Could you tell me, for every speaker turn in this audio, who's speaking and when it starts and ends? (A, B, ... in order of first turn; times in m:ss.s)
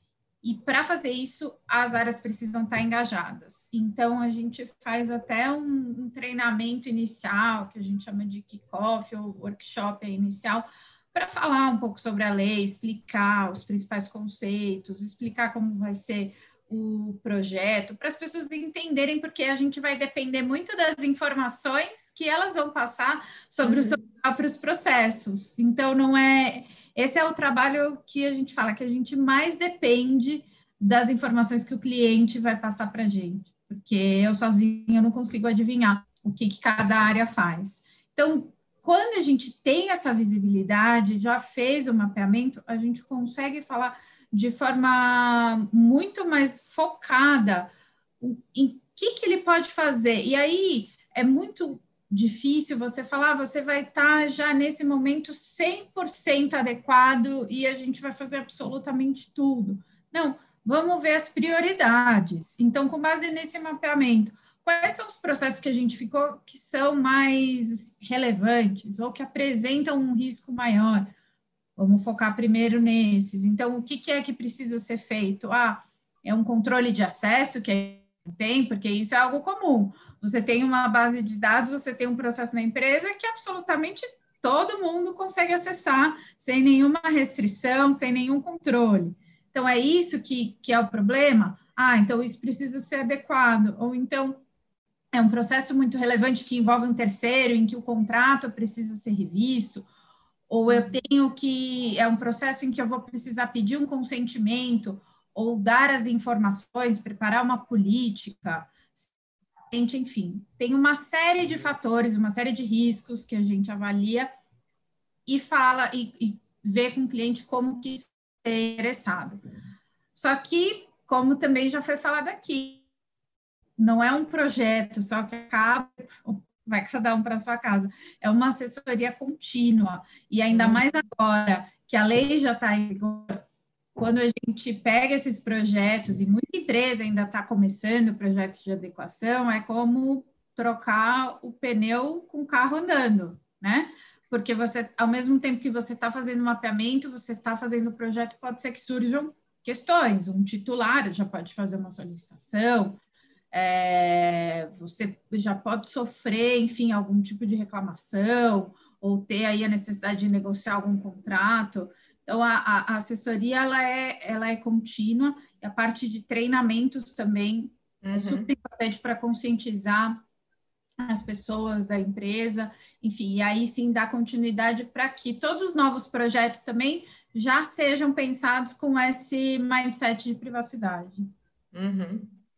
0:00.4-0:47.7 A
0:23.6-0:24.0 B
0:48.2-1:11.1 A
1:11.8-1:34.4 A
1:35.1-1:39.9 A
1:40.5-1:49.1 A
1:40.7-1:41.0 B
1:49.7-1:54.3 A
1:55.3-1:59.4 A
2:00.2-2:02.8 A
2:03.8-2:13.4 A
2:10.5-2:10.8 B
2:14.0-2:33.0 A
2:33.5-2:50.2 A
2:48.0-2:48.5 B
2:51.0-3:01.3 A
3:01.7-3:02.4 B